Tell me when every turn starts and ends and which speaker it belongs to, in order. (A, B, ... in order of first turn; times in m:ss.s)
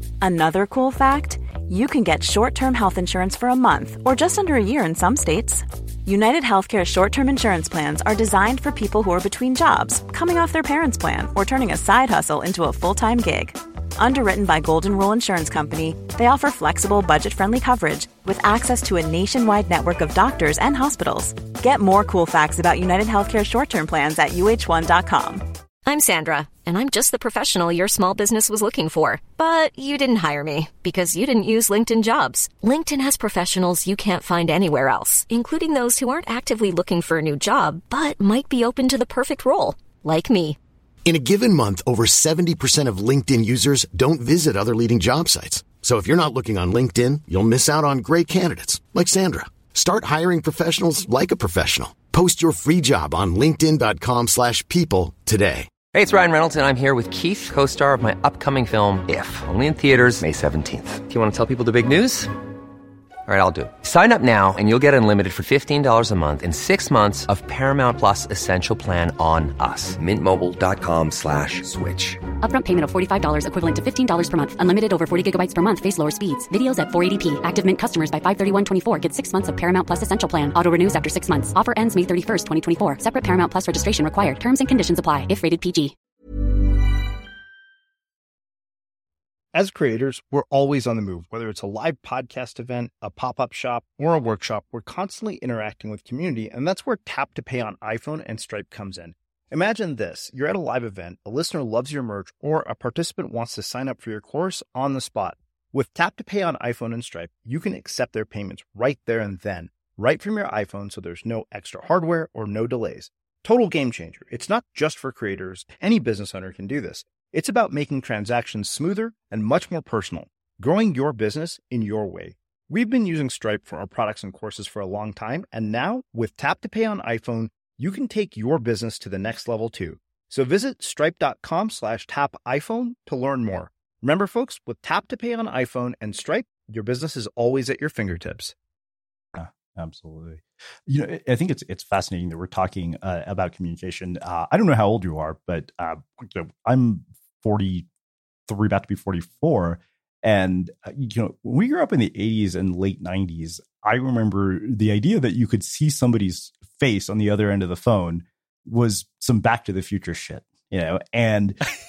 0:00.2-0:25.5 A
0:25.8-0:40.6 B
0:41.0-0:55.7 C
0:55.9-1:02.4 D
1:03.2-1:12.3 D
1:12.4-1:26.0 E
1:29.5-2:18.5 F
2:19.4-2:27.9 G
2:28.5-2:41.6 G